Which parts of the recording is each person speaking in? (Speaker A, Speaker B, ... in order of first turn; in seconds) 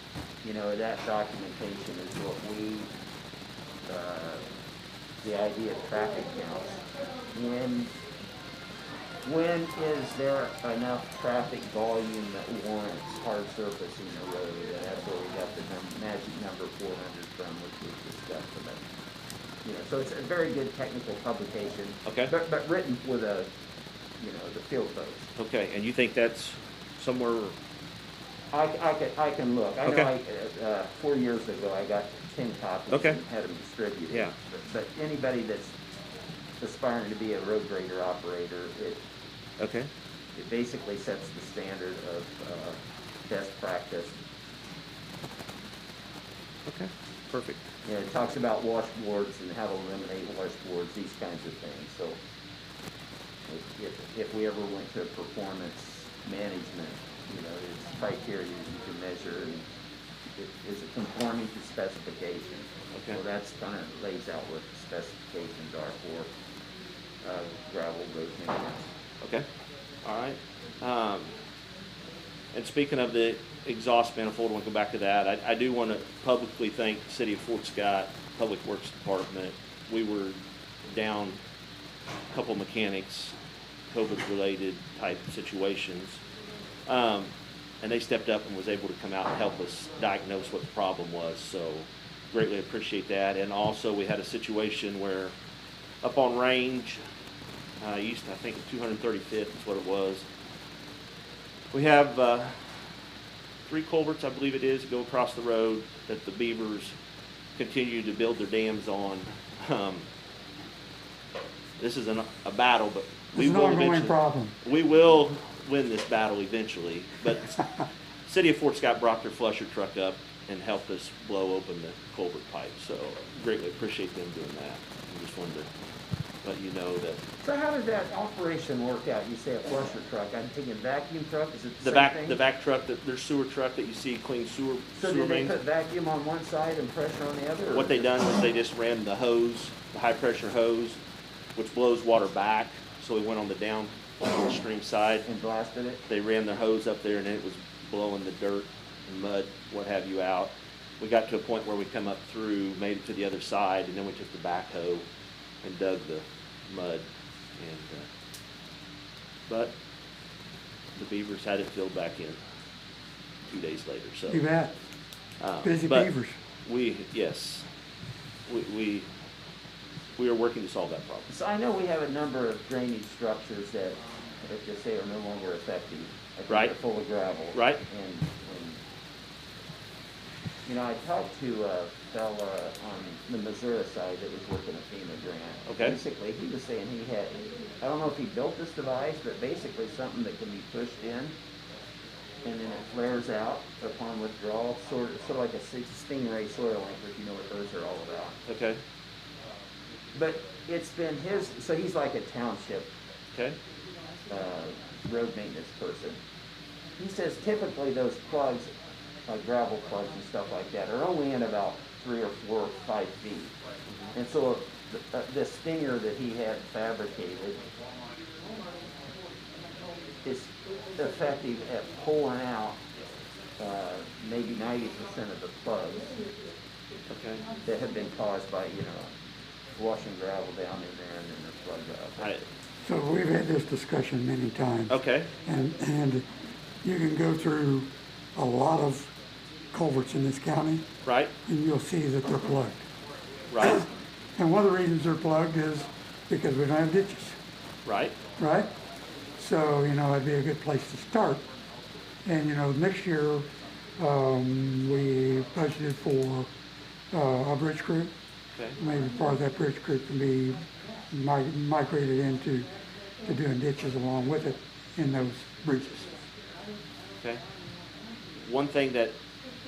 Speaker A: 0.4-2.9, 3.9-4.5, 5.2-6.8, 7.3-8.0, 9.2-18.8, 19.6-23.5, 24.2-25.3, 28.5-35.7, 36.6-39.0, 40.4-44.2, 47.9-52.2, 53.5-59.7, 60.4-66.3, 67.2-68.9, 127.4-132.4, 135.0-138.1, 145.3-146.0, 171.3-178.8, 180.7-191.3, 192.4-198.4, 200.2-202.9, 204.3-206.2, 207.0-208.7, 209.3-213.6, 214.1-217.6, 220.2-222.8, 223.6-226.2, 227.7-229.1, 229.8-232.3
Speaker B: 22.1-22.3, 25.4-27.6, 29.9-30.1, 32.9-33.2, 39.6-39.9, 46.7-47.6, 62.9-63.2, 70.0-71.3, 72.5-81.4, 82.3-83.3, 83.9-86.2, 86.9-95.3, 96.0-97.0, 97.8-100.2, 101.7-102.5, 103.7-106.9, 107.6-110.0, 111.8-117.6, 118.3-125.7, 126.5-127.2, 131.8-135.6, 137.7-141.0, 141.6-145.3, 146.1-155.0, 155.6-157.0, 157.6-158.1, 161.0-162.4, 163.5-164.4, 165.4-166.1, 166.7-167.6, 168.5-169.1, 170.2-171.3, 177.5-177.8, 185.7-186.0, 198.5-198.8, 227.1-227.5, 232.2-232.4, 234.9-235.3, 241.0-241.3, 243.5-243.8, 247.8-248.2, 258.5-258.8, 268.4-269.2
Speaker C: 113.3-114.5, 164.3-164.7, 165.6-166.3, 232.8-234.9, 235.5-236.2, 236.8-239.1, 239.7-240.9, 241.5-242.8, 243.6-247.4, 248.4-248.7, 249.4-251.5, 252.2-256.5, 257.1-258.1, 258.8-262.7, 263.2-266.2